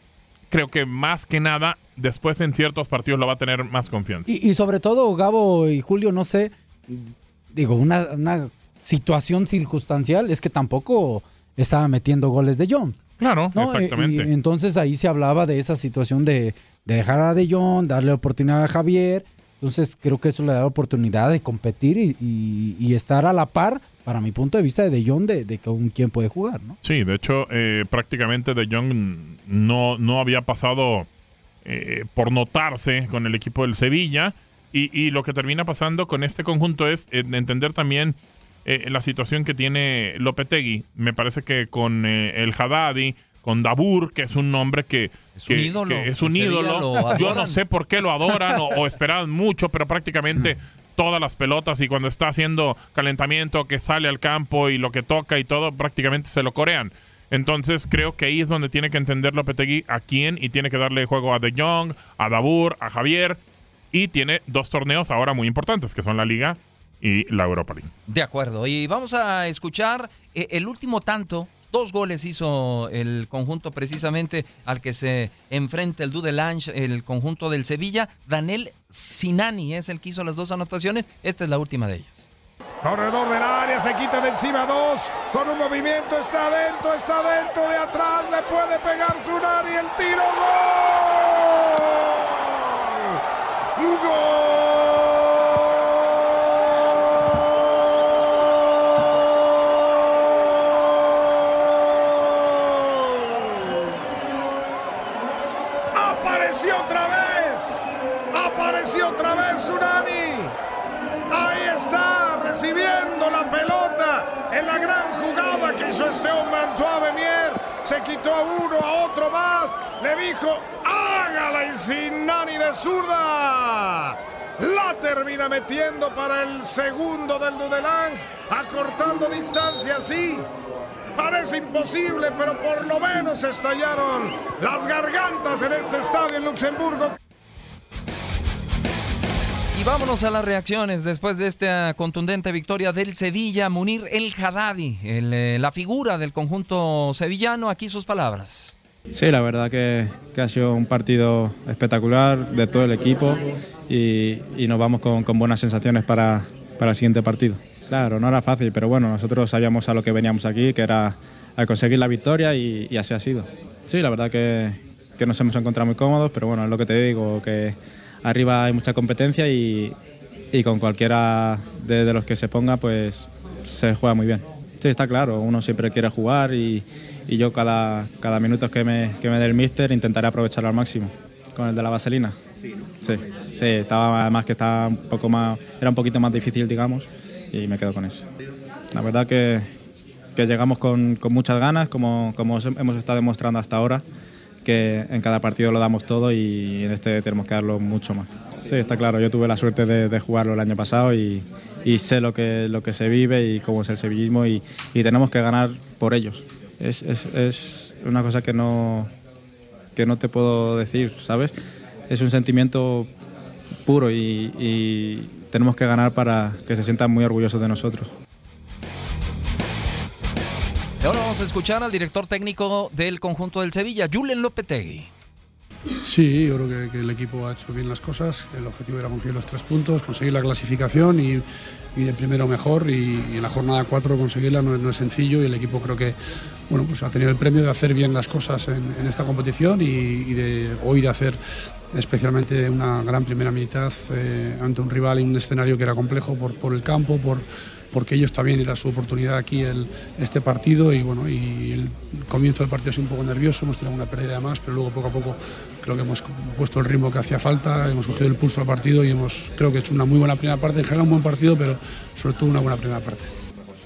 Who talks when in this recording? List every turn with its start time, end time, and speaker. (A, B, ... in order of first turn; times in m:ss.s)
0:00.5-0:04.3 A
0:04.3-0:13.0 B
0:13.2-0:14.3 A
0:13.5-0:26.8 B
0:26.8-0:31.1 A
0:31.6-1:03.4 A
0:45.3-0:47.6 C
1:03.9-1:07.9 A
1:08.1-1:22.3 C
1:22.8-1:33.2 D
1:33.8-1:43.8 D
1:45.9-1:50.5 D
1:51.3-2:10.5 D
2:11.2-2:17.2 D
2:19.7-2:28.7 C
2:29.1-2:49.9 E
2:50.5-3:02.4 E
3:03.0-3:08.2 E
3:08.9-3:09.6 E
3:10.4-3:14.0 E
3:14.6-3:29.1 E
3:29.9-3:31.5 E
3:32.1-3:33.1 E
3:33.8-3:38.1 E
3:41.0-3:45.1 C
3:46.0-3:56.2 F
3:56.7-4:01.4 F
4:01.9-4:23.3 F